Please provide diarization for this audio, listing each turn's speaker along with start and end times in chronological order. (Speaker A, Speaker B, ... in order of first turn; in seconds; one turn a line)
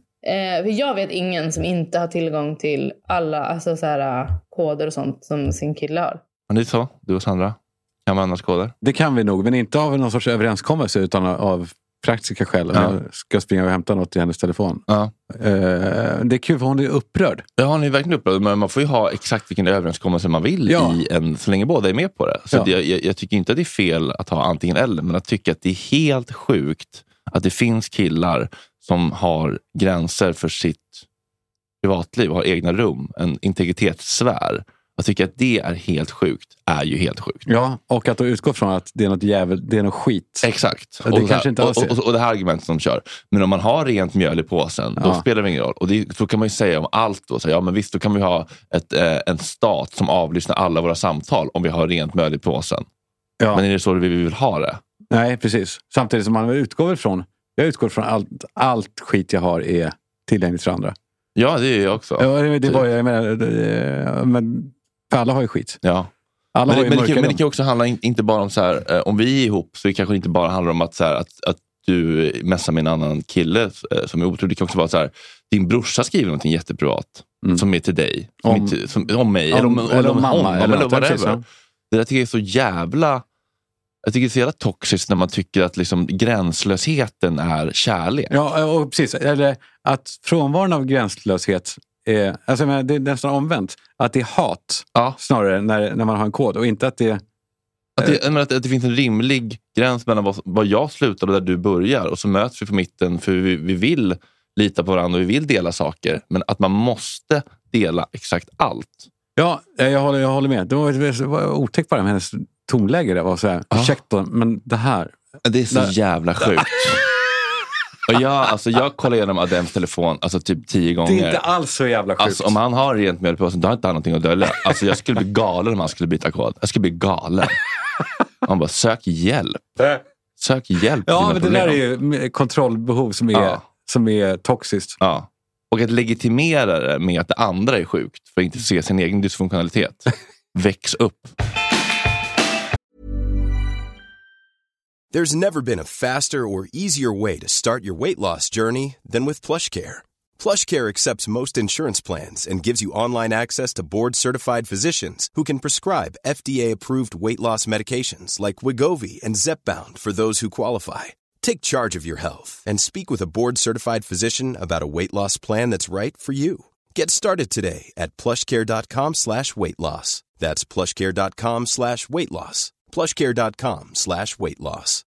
Speaker A: 0.2-6.2
Speaker B: 6.5-8.7
Speaker C: 8.8-17.4
Speaker B: 14.9-15.1
Speaker B: 17.6-31.0
Speaker C: 20.7-21.0
Speaker B: 31.8-37.5
Speaker C: 37.5-40.5
Speaker B: 40.4-52.9
Speaker C: 41.0-42.0
Speaker C: 45.0-45.2
Speaker B: 53.5-54.8
Speaker C: 55.1-61.0
Speaker B: 61.4-62.8
Speaker C: 62.2-65.8
Speaker B: 65.8-66.1
Speaker C: 66.5-67.4
Speaker B: 66.7-83.2
Speaker C: 78.4-78.8
Speaker C: 79.5-81.4
Speaker B: 84.0-88.3
Speaker C: 88.3-97.2
Speaker B: 98.0-109.1
Speaker C: 109.4-115.2
Speaker B: 115.4-117.1
Speaker B: 118.1-121.5
Speaker C: 121.0-122.6
Speaker B: 122.2-127.6
Speaker B: 128.4-129.8
Speaker B: 130.4-131.8
Speaker C: 131.1-135.0
Speaker B: 133.3-133.6
Speaker B: 135.0-141.3
Speaker D: 145.1-175.0